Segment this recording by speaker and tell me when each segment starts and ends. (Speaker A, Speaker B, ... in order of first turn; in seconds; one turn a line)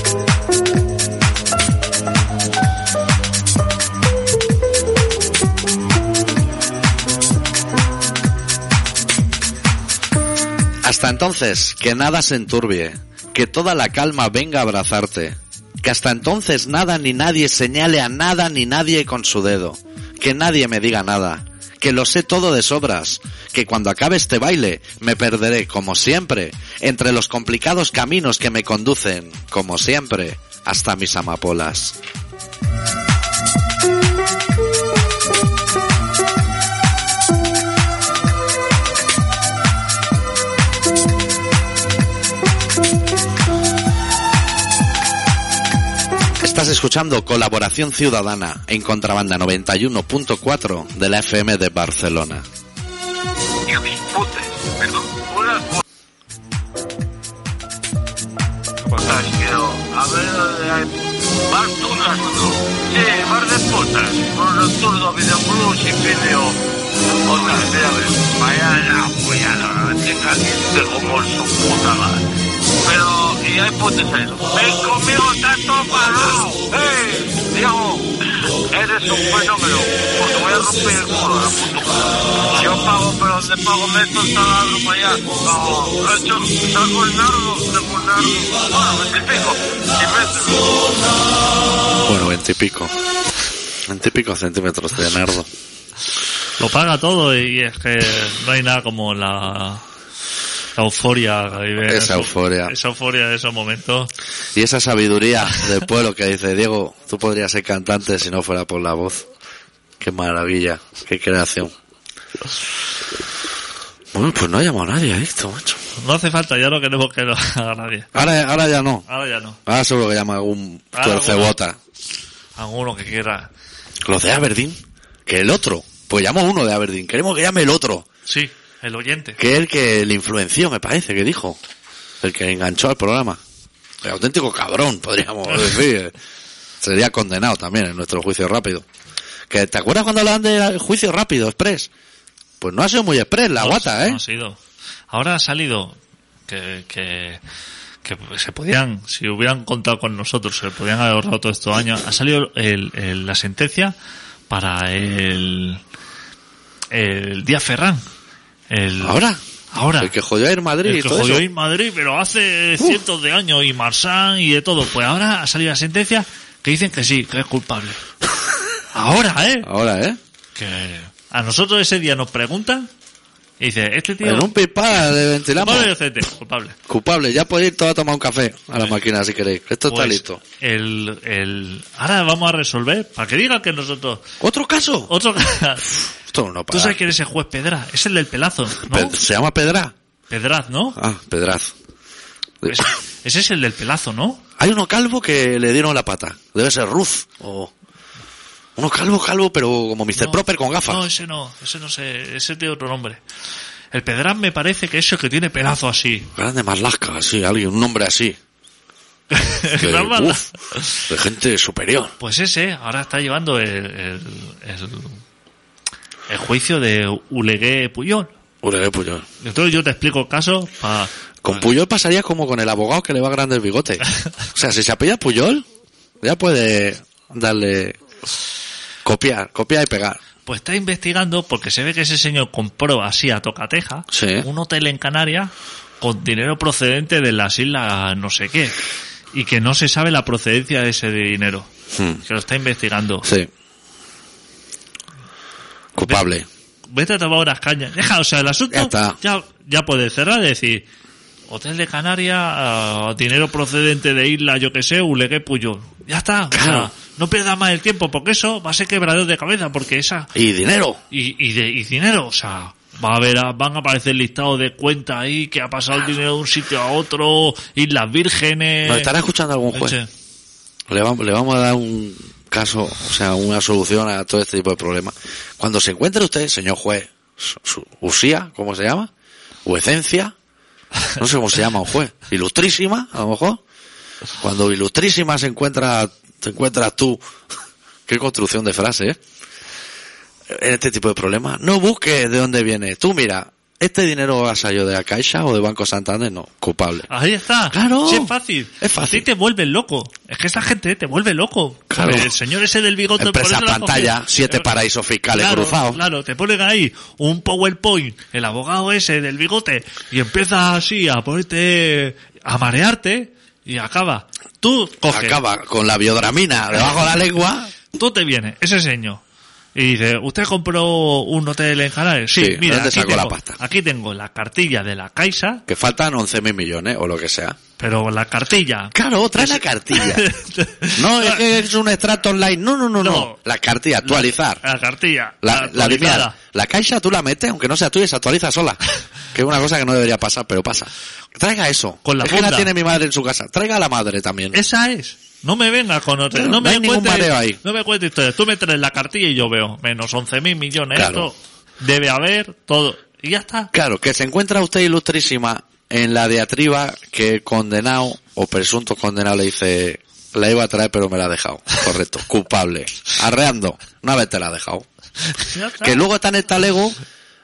Speaker A: 10.8-31.9
Speaker A: 46.4-52.4
Speaker B: 53.7-55.8
Speaker B: 58.8-66.6
Speaker B: 67.2-72.2
Speaker B: 72.8-90.9
Speaker A: 92.0-92.9
Speaker A: 93.8-95.5
Speaker C: 96.6-99.8
Speaker C: 100.8-104.1
Speaker A: 101.8-102.7
Speaker A: 104.5-109.3
Speaker A: 110.0-111.7
Speaker A: 114.1-115.8
Speaker C: 116.0-118.1
Speaker A: 118.1-119.0
Speaker C: 119.1-119.6
Speaker A: 119.7-121.8
Speaker C: 120.9-121.5
Speaker C: 122.5-123.5
Speaker A: 124.0-128.1
Speaker C: 128.3-129.4
Speaker A: 129.4-131.6
Speaker A: 132.2-133.4
Speaker A: 134.0-136.1
Speaker C: 135.5-135.8
Speaker A: 136.8-138.8
Speaker A: 139.5-141.9
Speaker A: 142.6-144.2
Speaker C: 143.6-144.6
Speaker C: 145.1-146.0
Speaker C: 146.5-147.4
Speaker C: 148.0-153.9
Speaker C: 154.5-155.8
Speaker C: 156.9-158.0
Speaker C: 158.7-159.2
Speaker A: 159.0-159.4
Speaker C: 159.7-160.1
Speaker A: 160.0-161.4
Speaker C: 160.8-168.0
Speaker C: 168.9-169.7
Speaker A: 169.6-170.2
Speaker C: 170.6-172.9
Speaker C: 173.6-174.5
Speaker A: 174.2-175.9
Speaker C: 175.5-176.8
Speaker A: 176.9-180.4
Speaker C: 179.9-184.3
Speaker A: 184.4-185.1
Speaker C: 185.1-185.9
Speaker A: 186.3-187.0
Speaker C: 186.7-189.2
Speaker A: 188.8-189.9
Speaker C: 190.3-191.0
Speaker A: 190.9-191.7
Speaker C: 192.7-194.4
Speaker A: 194.6-197.7
Speaker A: 198.8-201.0
Speaker C: 200.2-203.2
Speaker C: 203.9-206.3
Speaker A: 206.3-208.4
Speaker C: 209.3-211.1
Speaker A: 209.7-210.5
Speaker A: 211.1-212.1
Speaker C: 212.2-215.2
Speaker C: 216.3-218.3
Speaker A: 218.6-219.3
Speaker C: 219.4-221.1
Speaker A: 221.4-225.6
Speaker A: 226.2-228.0
Speaker A: 229.0-230.2
Speaker C: 230.4-238.8
Speaker A: 234.1-234.5
Speaker C: 239.3-241.7
Speaker A: 241.9-242.2
Speaker C: 242.2-243.3
Speaker A: 243.2-243.5
Speaker A: 245.9-246.5
Speaker C: 246.9-250.8
Speaker A: 248.7-249.2
Speaker C: 251.5-260.3
Speaker A: 256.5-256.9
Speaker A: 260.3-261.0
Speaker C: 261.1-269.1
Speaker A: 268.8-270.0
Speaker C: 269.7-270.1
Speaker A: 270.9-279.1
Speaker A: 279.6-280.3
Speaker A: 281.1-283.6
Speaker A: 284.4-287.2
Speaker A: 288.1-289.2
Speaker A: 290.5-297.1
Speaker C: 297.1-304.7
Speaker A: 297.7-299.2
Speaker A: 301.9-302.3
Speaker A: 303.2-306.0
Speaker C: 305.3-315.4
Speaker A: 315.1-317.7
Speaker C: 317.9-319.2
Speaker C: 319.7-325.6
Speaker A: 322.4-323.6
Speaker A: 325.7-327.6
Speaker C: 327.8-331.4
Speaker A: 328.9-330.2
Speaker A: 330.9-334.6
Speaker C: 333.0-333.4
Speaker C: 334.0-336.4
Speaker A: 335.4-338.8
Speaker A: 339.3-344.6
Speaker C: 342.0-342.7
Speaker C: 344.5-353.7
Speaker A: 346.3-347.6
Speaker A: 350.9-351.3
Speaker A: 353.7-364.9
Speaker C: 365.4-366.0
Speaker A: 365.8-367.0